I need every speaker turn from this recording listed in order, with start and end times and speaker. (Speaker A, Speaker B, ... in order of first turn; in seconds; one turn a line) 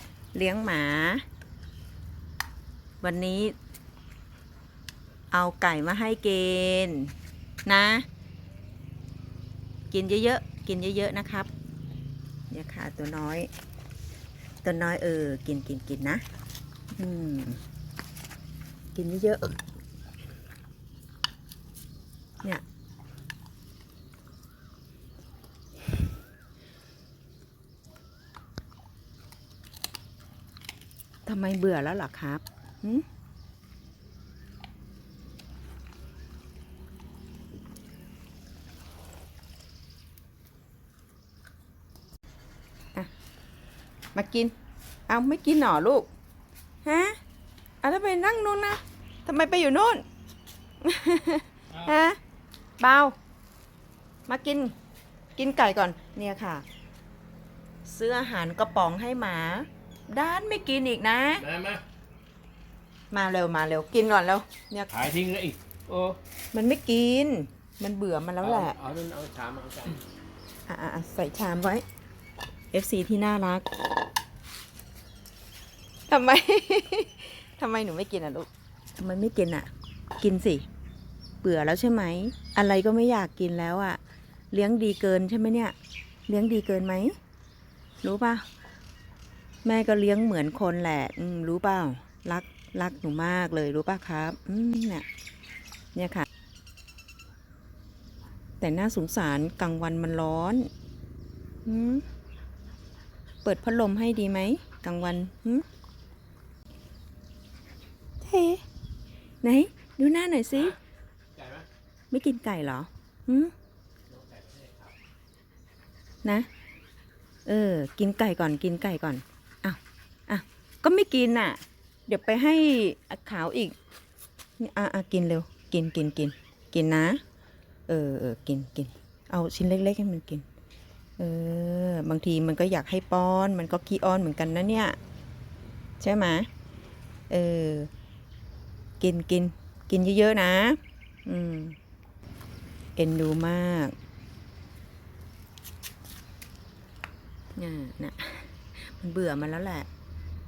Speaker A: 0.3-1.2
Speaker A: 3.0-3.5
Speaker A: 5.3-7.1
Speaker A: 7.7-8.1
Speaker A: 9.9-11.5
Speaker A: 12.5-13.5
Speaker A: 14.6-16.2
Speaker A: 16.9-17.6
Speaker A: 18.9-19.6
Speaker A: 31.2-33.0
Speaker A: 44.1-44.5
Speaker A: 45.1-46.1
Speaker A: 46.8-47.2
Speaker A: 47.8-50.0
Speaker A: 50.8-52.2
Speaker A: 52.8-53.1
Speaker A: 54.3-54.7
Speaker A: 55.3-56.6
Speaker A: 57.8-61.5
Speaker B: 61.4-61.8
Speaker A: 63.1-64.9
Speaker B: 64.9-66.2
Speaker A: 66.5-68.8
Speaker B: 68.4-70.0
Speaker A: 70.7-71.8
Speaker A: 72.7-73.6
Speaker A: 76.1-79.7
Speaker A: 80.2-80.7
Speaker A: 81.4-84.0
Speaker A: 84.5-85.7
Speaker A: 86.3-87.2
Speaker A: 88.0-88.4
Speaker A: 89.6-95.0
Speaker A: 95.9-96.3
Speaker A: 98.6-100.7
Speaker A: 101.7-102.0
Speaker A: 103.4-105.7
Speaker A: 108.2-108.6
Speaker A: 109.4-110.8
Speaker B: 111.3-111.7
Speaker A: 112.1-113.5
Speaker B: 114.1-114.9
Speaker A: 117.5-123.7
Speaker A: 124.6-127.2
Speaker A: 127.9-130.4
Speaker A: 131.2-134.9
Speaker A: 136.0-136.5
Speaker A: 137.3-137.9
Speaker A: 139.0-141.8
Speaker A: 142.9-143.9
Speaker A: 147.6-149.9